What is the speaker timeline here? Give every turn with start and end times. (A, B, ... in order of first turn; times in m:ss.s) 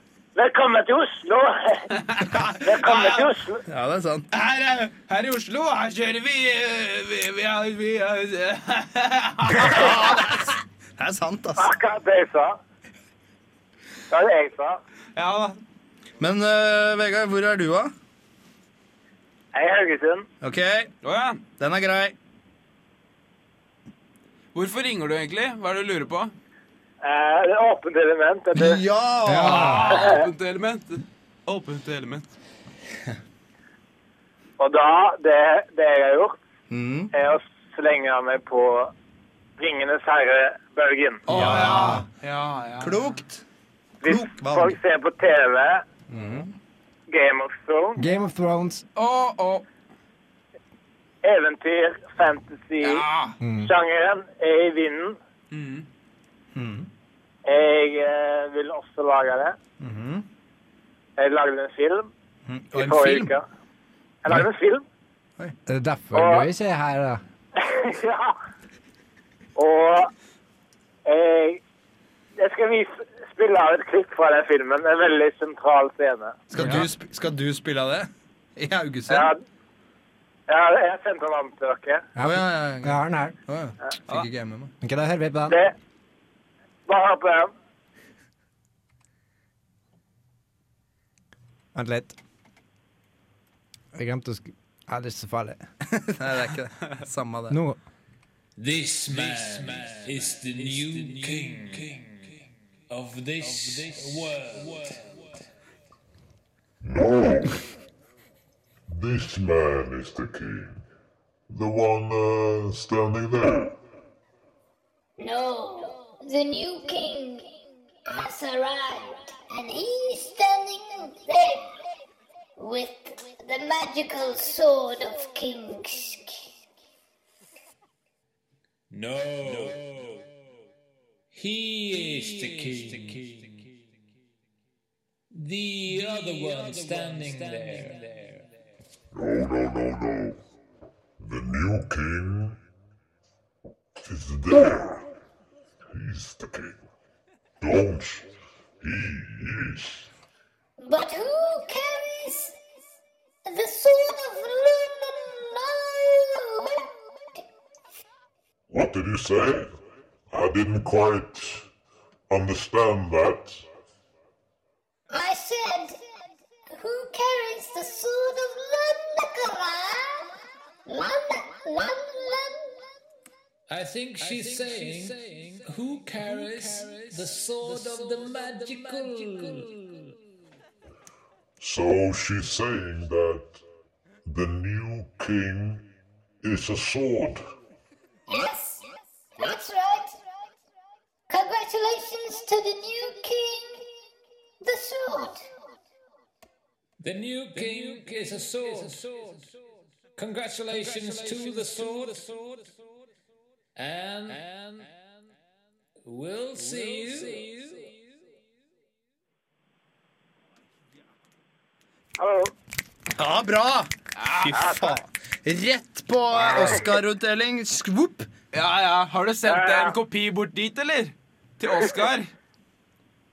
0:00.3-0:01.9 A
0:01.9-0:03.3 B
0:02.6-0:03.6 A
0:03.7-0:04.3 C
0:04.3-0:10.4 B
0:09.5-0:11.7 C
0:11.6-0:12.6 A
0:14.1-0:14.8 A
0:15.2-0:15.6 B
0:16.2-0:17.9 C
0:19.5-0:20.3 A
0:20.4-0:20.9 C
0:21.0-0:21.4 B
0:21.6-0:22.1 C
0:24.5-0:26.3 B
0:27.0-0:28.8 A
0:28.5-0:30.0 C
0:29.2-0:29.9 D
0:29.4-0:32.3 B
0:29.9-0:30.2 A
0:34.6-0:36.4 A
0:36.7-0:37.1 C
0:37.1-0:38.9 A
0:39.6-0:41.2 A
0:41.2-0:43.2 B
0:41.3-0:42.1 C
0:41.3-0:42.0 D
0:42.8-0:43.4 C
0:44.0-0:45.8 A
0:44.0-0:44.8 C
0:46.1-0:46.5 C
0:47.1-0:48.0 A
0:48.0-0:48.8 D
0:49.0-0:49.6 B
0:51.2-0:53.0 A
0:52.8-0:53.4 B
0:53.4-0:53.7 D
0:53.6-0:55.2 A
0:55.5-0:55.8 B
0:56.5-0:56.9 C
0:57.4-0:59.6 A
0:59.8-1:00.2 C
1:01.2-1:02.1 A
1:02.5-1:03.3 C
1:02.7-1:03.4 A
1:04.2-1:04.8 A
1:05.7-1:07.2 D
1:06.1-1:06.5 A
1:07.6-1:08.3 A
1:09.6-1:10.1 A
1:11.0-1:11.6 A
1:12.4-1:16.4 A
1:16.5-1:19.3 C
1:16.6-1:16.9 B
1:16.6-1:16.8 D
1:19.1-1:19.4 A
1:20.5-1:22.0 A
1:22.2-1:23.4 D
1:22.2-1:24.7 C
1:24.8-1:25.6 D
1:25.5-1:25.7 A
1:26.9-1:27.5 A
1:31.7-1:32.2 D
1:33.9-1:35.6 D
1:35.9-1:37.6 C
1:37.5-1:37.8 D
1:38.6-1:42.3 E
1:42.9-1:45.3 E
1:46.8-1:47.6 F
1:48.9-1:50.8 F
1:51.5-1:53.8 F
1:55.2-1:57.5 G
1:58.1-2:01.8 G
2:02.6-2:06.4 G
2:08.9-2:10.2 E
2:11.3-2:13.5 E
2:15.3-2:18.4 E
2:19.1-2:20.4 F
2:21.2-2:22.6 F
2:24.0-2:25.0 F
2:25.9-2:26.8 F
2:27.6-2:28.3 F
2:28.8-2:30.1 F
2:30.8-2:32.6 G
2:33.4-2:37.4 G
2:38.7-2:39.7 F
2:40.3-2:41.6 F
2:42.3-2:43.6 F
2:45.1-2:46.0 G
2:46.7-2:50.3 G
2:50.9-2:52.8 G
2:53.7-3:00.0 E
3:01.6-3:03.6 F
3:04.2-3:05.8 F
3:06.4-3:07.4 F
3:08.3-3:08.8 G
3:09.4-3:10.2 G
3:11.3-3:13.8 G
3:14.6-3:15.4 G
3:17.0-3:19.5 E
3:20.2-3:22.7 E
3:23.8-3:24.9 E
3:26.0-3:27.9 E
3:32.2-3:32.5 A
3:33.2-3:38.3 C
3:34.1-3:34.8 B
3:38.5-3:42.3 B
3:39.5-3:39.9 A